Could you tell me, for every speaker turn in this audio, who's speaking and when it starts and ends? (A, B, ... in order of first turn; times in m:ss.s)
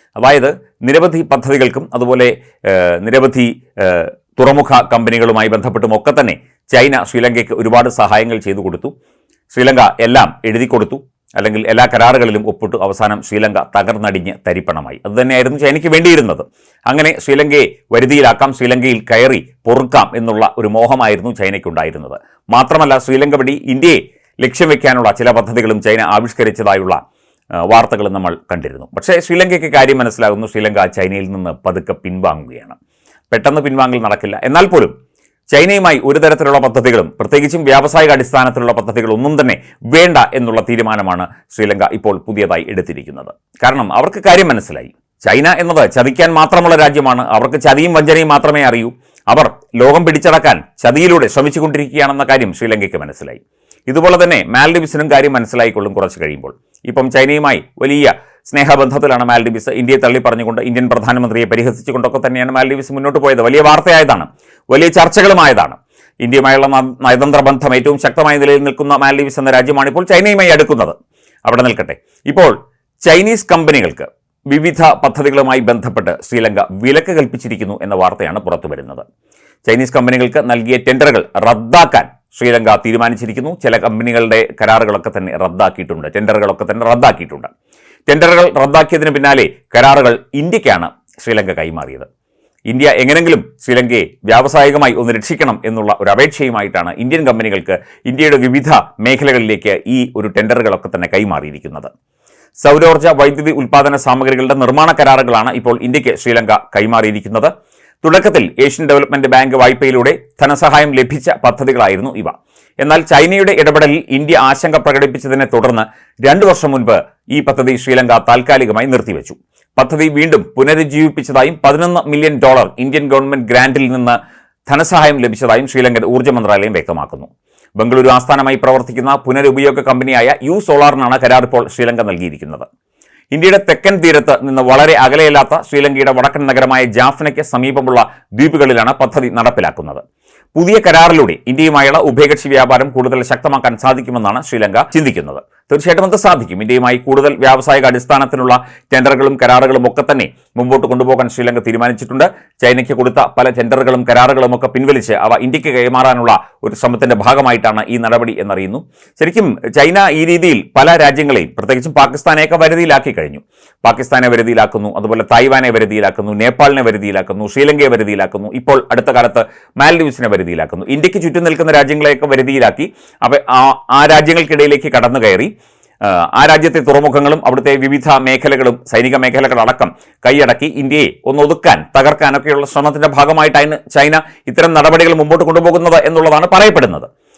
0:00.2-0:08.9 A
0:09.5-0:27.0 A
0:27.7-0:32.8 A
0:33.3-0:34.9 A
0:35.5-1:19.0 A
1:19.7-1:27.5 A
1:28.1-1:32.1 A
1:32.7-1:41.9 A
1:42.6-2:12.7 A
2:13.3-2:20.0 A
2:20.6-2:55.5 A
2:56.0-3:07.1 A